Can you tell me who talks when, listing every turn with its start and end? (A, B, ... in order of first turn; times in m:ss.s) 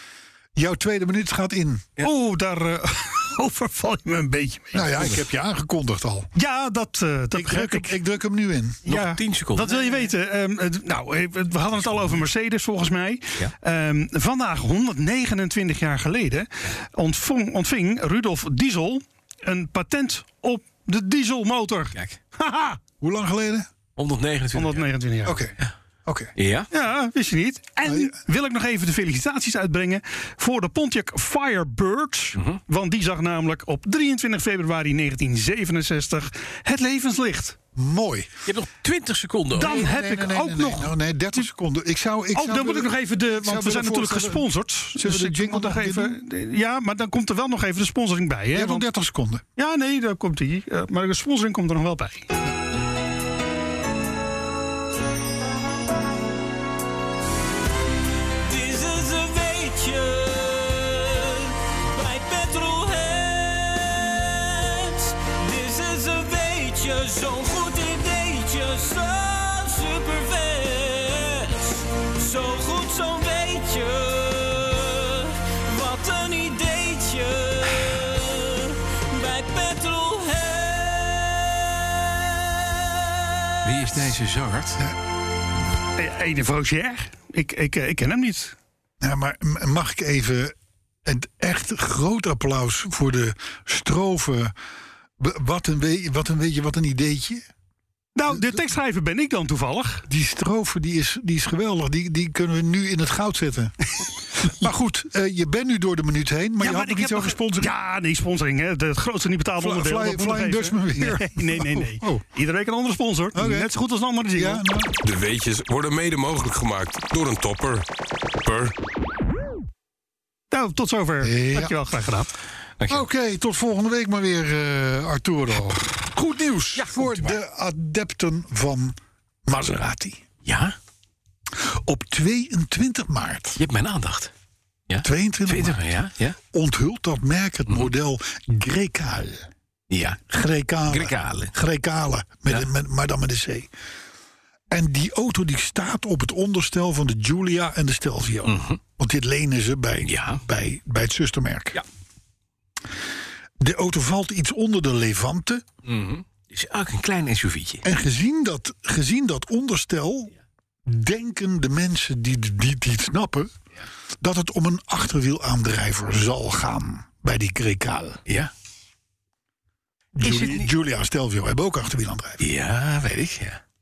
0:00.6-0:02.0 A
0:02.0-0:05.1 B
0:04.7-0:06.3 A
0:06.4-0:08.0 B
0:07.3-0:08.9 A
0:08.9-0:10.1 C
0:08.9-0:22.8 B
0:21.9-0:22.2 C
0:23.0-0:23.7 A
0:24.0-0:24.9 C
0:24.5-0:25.4 B
0:25.2-0:26.3 A
0:26.4-0:26.7 C
0:26.7-0:37.6 B
0:27.8-0:28.2 A
0:37.8-0:38.3 A
0:38.5-0:39.9 C
0:39.5-0:41.5 B
0:39.6-0:46.2 A
0:42.3-0:48.9 B
0:48.5-0:49.4 A
0:49.6-0:52.3 B
0:58.4-1:22.9 D
1:23.6-1:24.8 C
1:26.0-1:28.6 B
1:29.0-1:34.5 A
1:35.2-1:37.5 A
1:38.2-1:40.0 B
1:38.3-1:38.6 A
1:40.1-1:43.8 A
1:44.4-1:47.7 A
1:46.6-1:54.7 B
1:49.6-1:52.2 A
1:53.3-1:53.7 A
1:54.3-1:55.0 A
1:55.0-1:57.8 E
2:00.5-2:02.3 B
2:01.2-2:01.8 A
2:02.8-2:03.1 C
2:02.9-2:10.2 A
2:06.8-2:07.4 C
2:10.4-2:10.8 C
2:11.6-2:13.6 A
2:13.6-2:14.3 C
2:14.9-2:16.4 C
2:15.0-2:15.9 A
2:16.5-2:19.5 A
2:19.9-2:20.2 C
2:20.3-2:23.7 A
2:20.9-2:21.6 C
2:24.7-2:31.8 A
2:28.4-2:28.8 C
2:30.0-2:30.4 C
2:33.6-2:35.6 A
2:35.8-2:37.9 C
2:37.8-2:40.3 A
2:40.9-2:43.5 A
2:44.2-2:48.2 A
2:48.3-2:48.5 C
2:50.2-2:52.4 A
2:50.2-2:50.7 C
2:52.4-2:53.6 C